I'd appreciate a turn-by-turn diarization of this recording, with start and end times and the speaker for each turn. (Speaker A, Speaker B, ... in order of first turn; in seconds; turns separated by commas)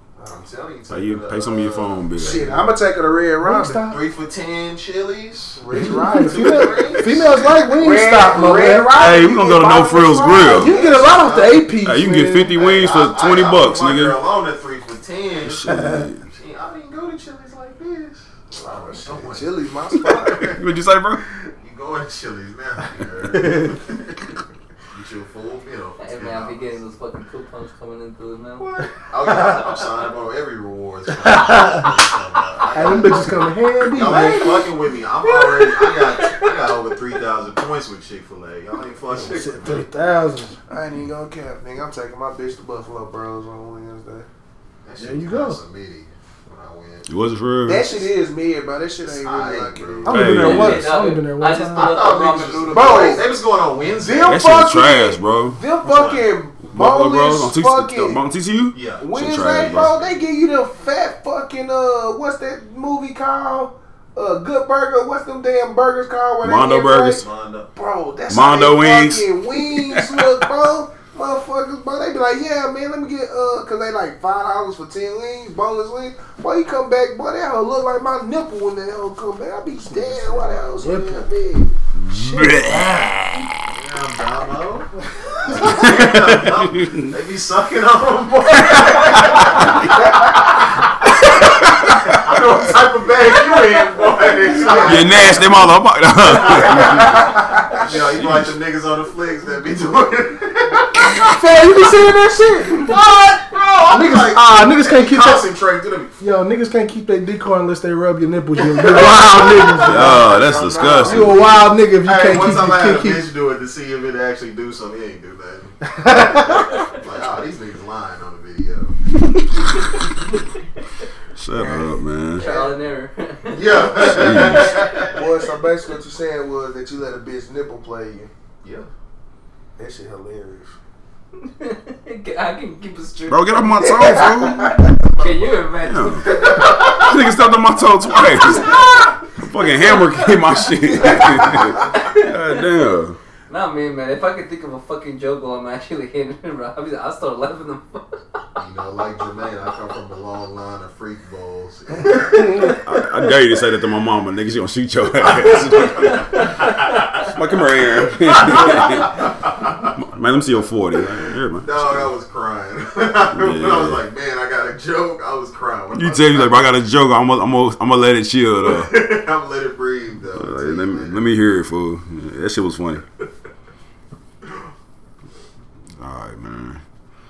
Speaker A: 0.2-2.8, Speaker B: 0.9-2.5, Speaker C: 2.2-3.8, Speaker D: 3.4-4.0, Speaker A: 3.8-7.6, Speaker C: 5.5-7.0, Speaker D: 5.8-9.0, Speaker C: 7.7-11.3, Speaker B: 8.9-10.7, Speaker D: 10.6-12.7, Speaker A: 10.6-11.6, Speaker B: 11.8-14.2, Speaker A: 12.6-20.6, Speaker B: 15.4-16.2, Speaker C: 18.5-20.5, Speaker B: 20.2-21.2, Speaker A: 21.2-24.2, Speaker C: 23.5-23.7, Speaker A: 24.9-26.8, Speaker E: 26.0-29.9, Speaker A: 28.6-39.9, Speaker D: 31.1-31.9, Speaker D: 32.7-34.8, Speaker D: 39.1-40.6, Speaker C: 40.7-44.3, Speaker A: 44.8-47.1, Speaker D: 45.0-45.6, Speaker B: 47.1-48.0, Speaker C: 47.6-50.2, Speaker A: 49.0-50.3, Speaker D: 50.0-51.9, Speaker B: 50.1-50.9, Speaker E: 50.3-53.3, Speaker A: 51.7-54.4, Speaker C: 52.7-53.2, Speaker C: 54.0-58.2, Speaker B: 54.3-55.6, Speaker A: 55.8-56.3, Speaker B: 56.6-60.1, Speaker A: 58.7-59.1, Speaker C: 59.0-67.2, Speaker B: 66.4-67.2, Speaker A: 67.2-67.7, Speaker C: 67.7-81.7, Speaker B: 68.3-70.3, Speaker A: 79.9-80.6, Speaker D: 80.7-81.4, Speaker B: 82.0-83.6, Speaker D: 82.1-82.7, Speaker A: 83.7-101.3, Speaker B: 85.5-87.1, Speaker B: 88.7-89.7, Speaker B: 91.6-92.1, Speaker E: 93.5-93.8, Speaker C: 94.5-95.3, Speaker B: 94.8-98.5, Speaker C: 101.0-102.9, Speaker A: 102.7-106.1, Speaker D: 103.9-105.5, Speaker D: 106.2-110.2, Speaker A: 108.6-115.8, Speaker C: 108.8-111.3, Speaker B: 109.8-111.6, Speaker D: 111.0-113.3, Speaker D: 115.8-116.7, Speaker A: 116.9-118.9, Speaker B: 121.3-122.4, Speaker C: 121.6-122.8, Speaker E: 122.3-125.0, Speaker A: 123.5-125.2, Speaker B: 124.0-124.8, Speaker C: 125.0-128.3, Speaker A: 128.6-128.9, Speaker C: 129.8-130.7, Speaker E: 131.4-134.5, Speaker B: 133.3-134.7, Speaker E: 135.1-137.1, Speaker A: 135.2-135.5, Speaker B: 135.8-138.8, Speaker A: 136.3-137.0, Speaker E: 138.3-142.7, Speaker B: 139.3-143.2, Speaker A: 141.0-142.0, Speaker E: 143.5-148.2, Speaker A: 148.6-152.7, Speaker B: 152.5-156.2, Speaker E: 155.6-157.2, Speaker A: 156.4-157.2, Speaker B: 157.3-159.2, Speaker A: 158.0-159.9, Speaker E: 158.4-158.8, Speaker B: 160.0-162.1, Speaker A: 161.6-166.7, Speaker B: 163.3-164.0, Speaker B: 165.9-169.0, Speaker A: 168.6-171.2, Speaker B: 170.3-173.0, Speaker B: 176.0-176.8